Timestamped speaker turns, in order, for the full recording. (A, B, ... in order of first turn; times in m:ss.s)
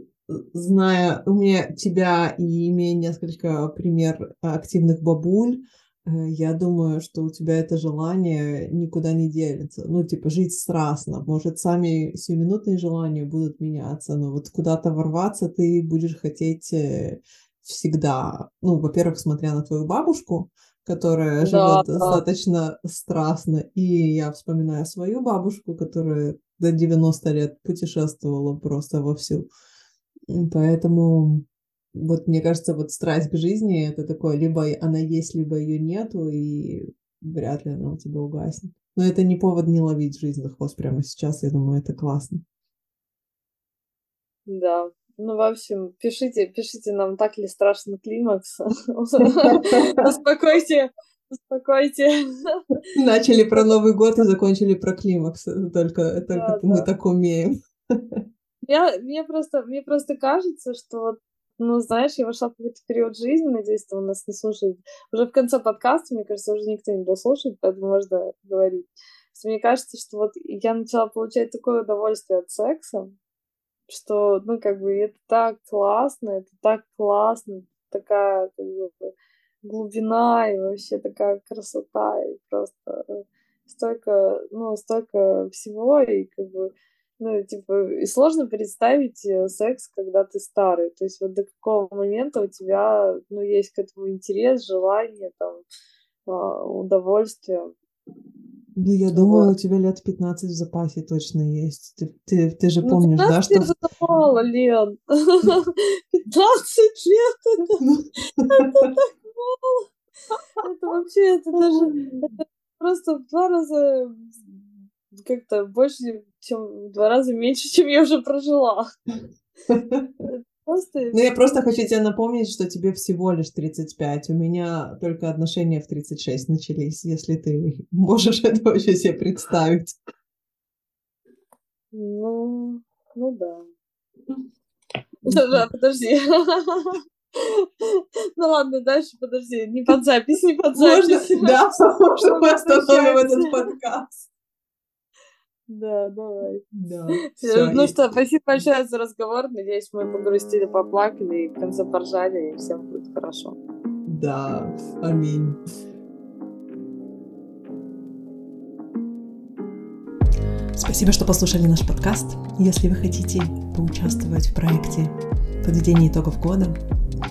0:00.3-0:29.5 A
0:21.4-0:22.2 B
0:30.3-0:42.4 A
0:44.5-0:52.6 B
0:49.4-0:49.9 A
0:52.9-0:57.6 A
0:56.3-0:56.8 B
0:58.6-1:13.1 B
1:13.9-1:19.1 B
1:19.6-1:35.6 B
1:36.2-1:37.7 B
1:38.8-1:43.7 A
1:39.1-1:39.5 B
1:42.8-1:47.8 B
1:47.8-1:48.9 A
1:48.5-1:49.9 B
1:50.6-1:58.8 B
1:51.7-1:52.3 A
1:59.7-2:00.1 A
2:00.2-2:01.2 B
2:01.1-2:09.9 A
2:11.9-2:13.7 B
2:15.2-2:23.5 B
2:15.3-2:15.6 A
2:20.8-2:24.3 A
2:25.7-2:26.6 B
2:26.7-2:27.9 A
2:27.3-2:33.6 B
2:34.1-2:35.6 A
2:40.8-2:45.1 A
2:45.6-2:46.8 A